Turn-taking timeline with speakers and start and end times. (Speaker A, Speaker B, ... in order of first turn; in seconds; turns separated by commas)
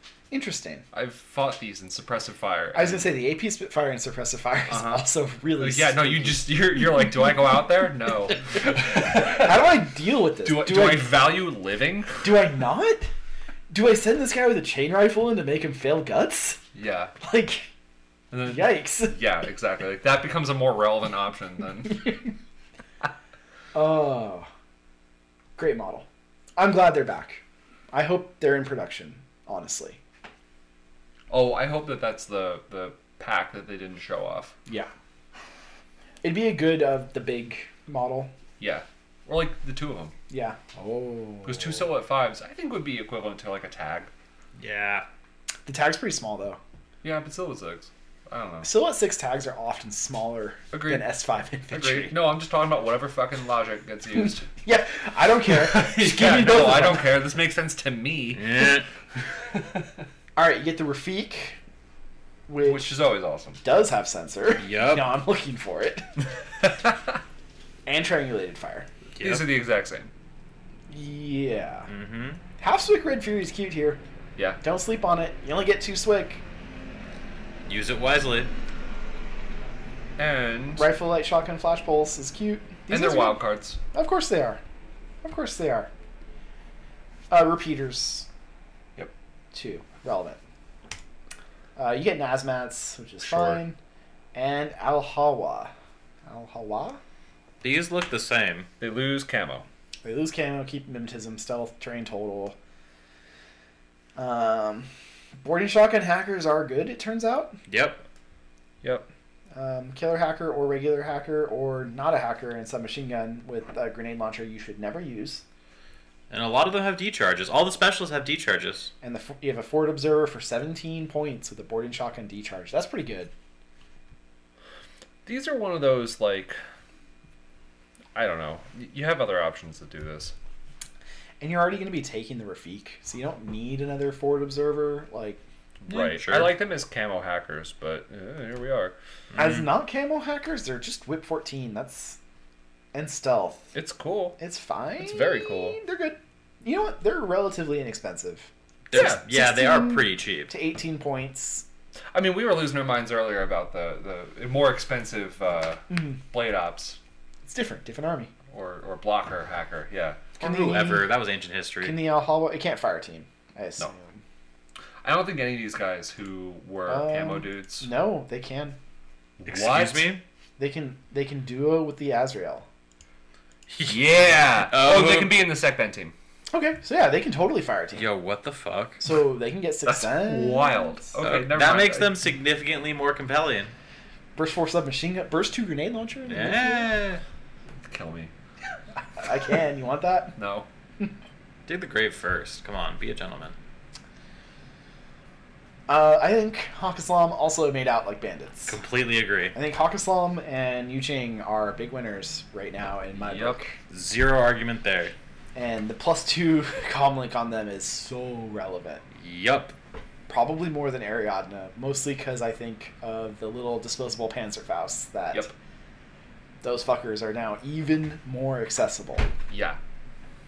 Speaker A: 0.3-0.8, Speaker B: 0.9-3.2, Speaker A: 2.7-6.5, Speaker B: 4.7-9.6, Speaker A: 8.8-11.2, Speaker B: 10.4-12.3, Speaker A: 12.2-13.1, Speaker A: 13.7-16.6, Speaker B: 16.7-17.1, Speaker A: 17.2-17.7, Speaker B: 18.3-22.3, Speaker A: 18.4-19.2, Speaker A: 23.7-24.5, Speaker A: 25.6-26.1, Speaker A: 26.6-30.0, Speaker B: 31.3-34.5, Speaker A: 36.2-38.3, Speaker B: 38.6-40.1, Speaker A: 40.3-41.9, Speaker B: 41.5-44.1, Speaker C: 44.6-45.1, Speaker A: 45.7-46.6, Speaker B: 47.0-48.7, Speaker A: 48.6-52.3, Speaker B: 50.7-51.1, Speaker B: 51.7-54.5, Speaker A: 54.6-57.1, Speaker B: 55.4-58.8, Speaker C: 58.3-58.9, Speaker B: 59.5-59.8, Speaker A: 60.4-61.6, Speaker A: 62.5-62.9, Speaker B: 62.6-63.6, Speaker A: 63.6-66.1, Speaker C: 64.6-65.2, Speaker A: 67.9-68.9, Speaker C: 69.2-69.5, Speaker B: 69.2-70.1, Speaker A: 70.9-71.9, Speaker C: 71.9-72.4, Speaker A: 72.6-74.0, Speaker A: 74.6-76.4, Speaker C: 77.7-78.5, Speaker B: 80.2-80.9, Speaker A: 80.8-83.4, Speaker B: 82.9-83.8, Speaker A: 83.9-84.6, Speaker A: 85.2-85.9, Speaker A: 87.3-88.3, Speaker A: 89.5-90.4, Speaker A: 91.8-93.8, Speaker B: 93.2-93.6, Speaker A: 94.3-95.7, Speaker A: 96.3-97.0, Speaker C: 97.6-98.7, Speaker B: 98.8-99.7, Speaker A: 100.0-102.6, Speaker A: 104.2-104.9, Speaker A: 105.4-107.6, Speaker C: 107.7-108.0, Speaker B: 108.8-109.1, Speaker A: 109.5-115.4, Speaker C: 116.3-118.9, Speaker A: 119.0-123.3, Speaker B: 125.2-126.6, Speaker B: 128.2-130.3, Speaker A: 131.4-135.4, Speaker B: 135.8-138.9, Speaker C: 135.9-136.6, Speaker C: 139.3-139.6, Speaker A: 139.4-142.2, Speaker A: 142.9-143.7, Speaker B: 143.7-144.4, Speaker A: 144.4-151.7, Speaker B: 145.0-145.8, Speaker C: 148.9-150.5, Speaker B: 148.9-149.2, Speaker B: 152.1-157.0, Speaker A: 155.9-156.2, Speaker A: 157.5-158.3, Speaker B: 158.5-160.3, Speaker A: 160.4-161.1, Speaker C: 160.4-162.0, Speaker A: 161.8-164.2, Speaker B: 165.0-167.9, Speaker A: 166.9-168.8, Speaker B: 169.4-170.1, Speaker C: 169.5-170.2, Speaker A: 170.6-172.7, Speaker C: 173.7-175.4, Speaker B: 173.8-176.1, Speaker A: 176.5-178.1, Speaker C: 178.0-179.0, Speaker A: 179.0-181.1, Speaker B: 179.8-182.2, Speaker C: 181.2-183.7, Speaker A: 184.4-186.9, Speaker C: 186.3-187.2, Speaker B: 187.8-188.3, Speaker A: 189.2-190.4, Speaker B: 190.4-190.7, Speaker C: 191.7-193.6, Speaker A: 195.9-198.8, Speaker C: 198.7-199.6, Speaker A: 199.5-203.8, Speaker B: 203.2-203.6, Speaker C: 203.9-205.2, Speaker A: 205.6-209.0, Speaker C: 209.2-209.7, Speaker A: 210.3-215.5, Speaker A: 216.6-219.3, Speaker B: 219.5-219.8